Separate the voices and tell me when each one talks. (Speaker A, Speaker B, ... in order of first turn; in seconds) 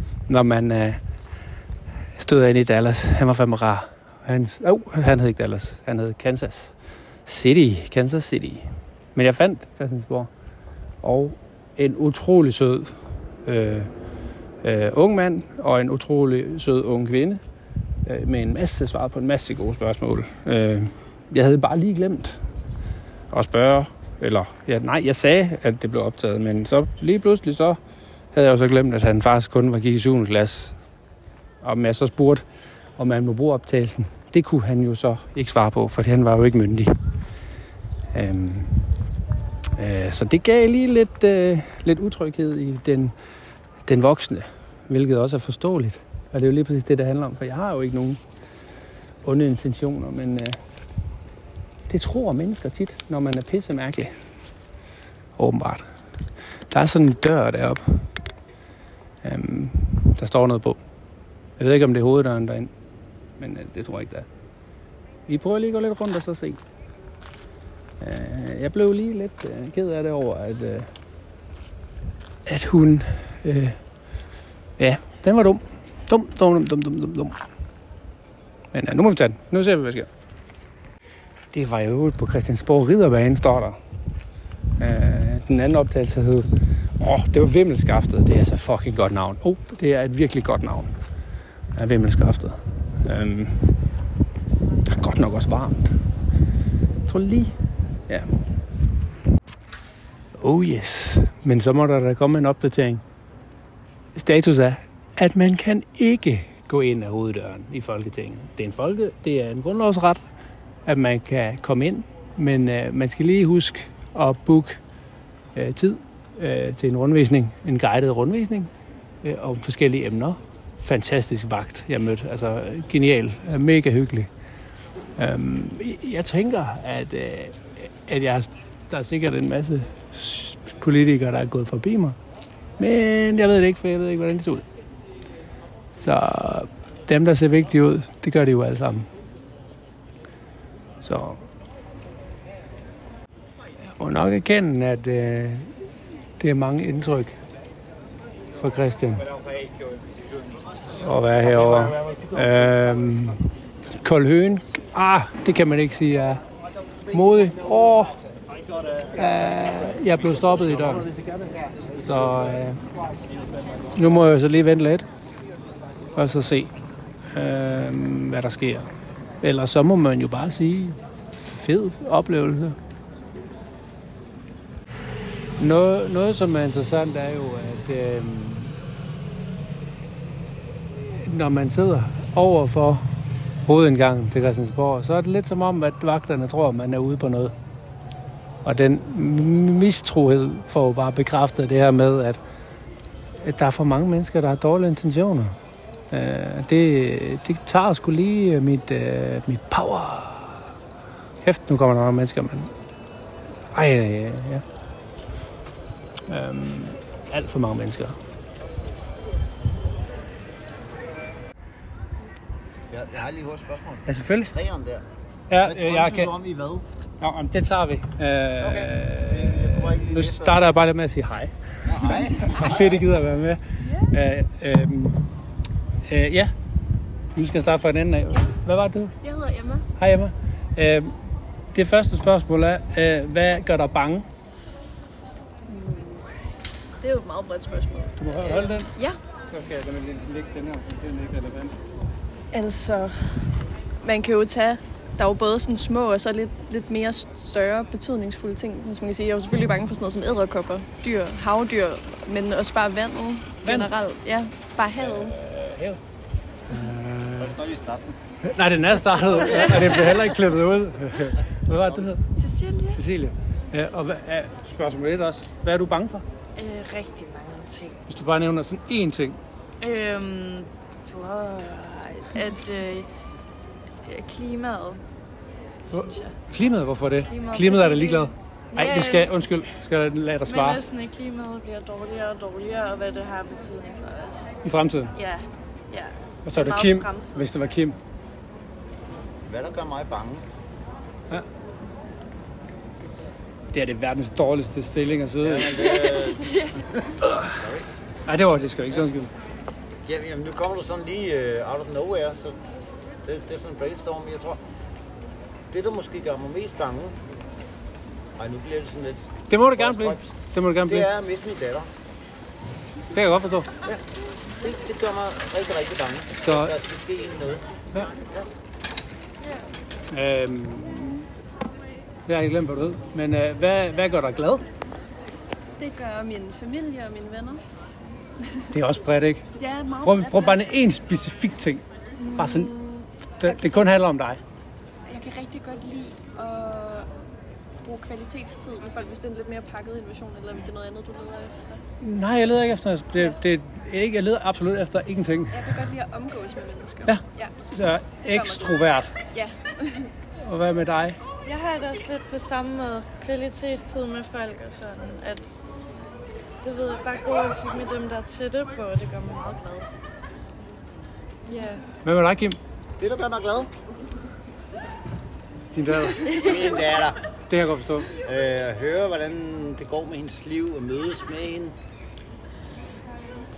Speaker A: 0.3-1.0, 2.1-10.3, 11.0-13.9, 14.6-17.4, 18.0-22.4, 23.3-27.8, 28.3-30.8, 31.6-32.4, 33.0-36.9, 38.1-39.0, 39.8-43.1, 43.9-48.2, 49.2-50.6, 51.9-54.1, 55.4-55.9, 56.7-58.1, 59.2-60.8, 61.6-62.7, 63.4-64.3, 65.3-66.6, 68.0-70.9, 72.5-73.8, 74.8-77.4, 78.7-80.1, 81.5-83.8, 84.8-86.5, 87.0-90.9, 91.8-94.0, 94.9-96.0, 97.0-97.5, 100.4-103.0, 104.1-110.2, 110.8-114.8, 115.5-118.7, 119.2-124.3, 125.2-132.2, 132.8-134.7, 135.9-139.1, 141.0-141.4, 143.9-145.7, 146.4-147.4, 148.6-149.3, 151.0-156.4, 157.1-158.2, 159.1-161.1, 162.0-162.8, 163.9-165.1, 166.1-166.7, 167.3-168.9, 169.4-172.8, 175.6-178.8, 181.0-183.1, 183.7-187.5, 188.6-192.4, 193.4-195.6, 196.1-200.7, 201.4-202.7, 203.7-204.6, 206.3-208.1, 214.1-214.5, 215.5-216.3, 217.2-225.2, 226.1-226.5, 227.3-229.1, 230.0-231.1, 231.7-234.2, 238.2-238.9, 239.4-241.8, 253.6-253.9, 254.9-256.0, 256.7-257.5, 258.4-262.2, 262.9-266.2, 268.1-269.4, 275.9-280.8, 284.6-285.1, 286.4-287.9, 293.7-295.8, 297.2-297.5, 298.2-299.3, 309.5-311.1, 313.1-313.7, 316.4-316.7, 320.1-321.3, 322.3-324.6, 328.7-329.4, 330.0-331.8, 332.4-332.7, 333.4-334.4, 342.0-345.7, 347.1-349.1, 350.4-351.2, 362.0-362.6, 365.7-366.3, 367.5-368.1
Speaker B: 212.9-215.0, 215.6-216.8, 218.6-220.6, 221.8-223.0, 257.4-258.1, 259.3-260.4, 261.7-262.1, 289.5-290.4, 295.4-297.9, 300.0-302.5, 303.2-304.6, 305.7-307.1, 308.4-310.3, 310.9-311.9, 314.6-317.6, 363.0-363.7, 366.3-367.2, 368.2-371.7
Speaker C: 229.2-229.9, 235.7-236.3, 237.0-238.3, 242.5-255.3, 325.8-327.6, 329.5-330.7, 332.2-333.8, 335.1-337.1, 337.8-341.8, 345.5-347.5, 348.2-348.8, 349.3-350.1
Speaker D: 262.4-263.0, 266.6-267.9, 269.8-273.1, 274.0-275.0, 275.9-276.4, 277.2-279.4, 280.4-284.6, 285.1-287.4, 295.9-296.7, 319.4-319.7, 351.4-355.6, 356.6-359.9, 361.4-361.8, 366.2-366.6